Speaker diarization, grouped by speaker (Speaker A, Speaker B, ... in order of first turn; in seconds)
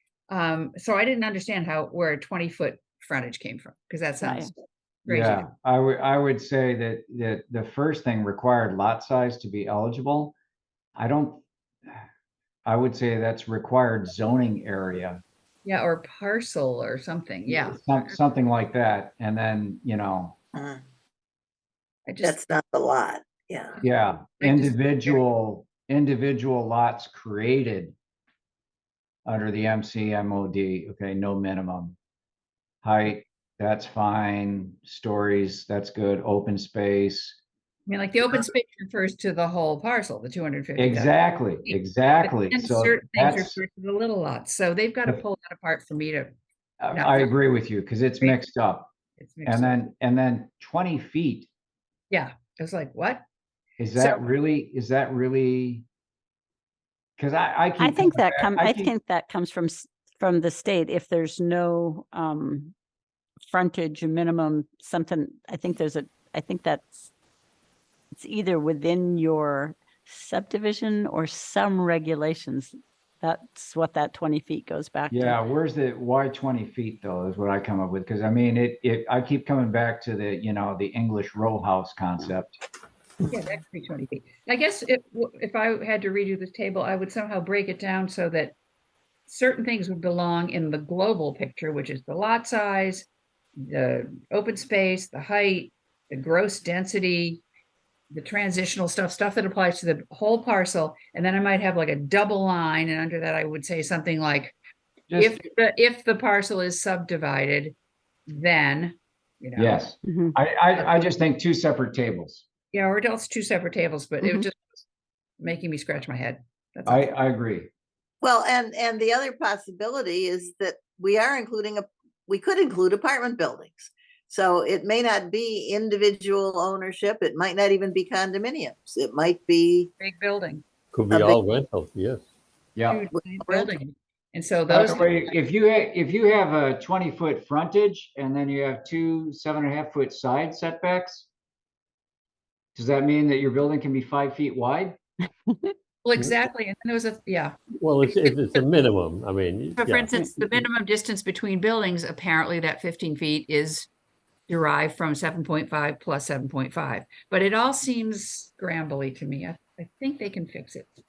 Speaker A: 0.3-5.5, 15.6-18.1, 22.1-22.4, 24.4-25.2, 37.9-46.3, 46.9-47.3, 49.2-49.8, 52.1-53.2, 54.0-54.3, 83.2-88.5, 89.3-97.4, 98.1-104.5, 105.1-107.8, 108.3-109.9, 112.7-114.8, 115.4-117.1, 130.0-130.6, 132.9-135.3, 146.0-148.6, 149.8-153.9, 154.5-160.9
Speaker B: 4.2-4.5, 57.8-62.7, 63.5-67.1, 68.1-75.4, 110.0-110.3, 114.2-114.5
Speaker C: 5.1-10.3, 10.9-12.0, 12.7-15.2, 17.5-20.4, 23.8-27.9, 29.2-31.9, 32.8-37.4, 40.8-43.6, 46.8-48.9, 49.4-51.5, 53.8-55.8, 57.2-58.9, 75.1-82.6, 105.1-105.5, 109.5-112.5, 116.8-117.7, 132.7-133.0, 134.7-141.3, 142.7-145.0
Speaker D: 20.5-20.8, 22.2-23.8, 118.2-129.9, 131.1-131.4, 133.4-133.7
Speaker E: 130.9-132.2, 147.8-150.6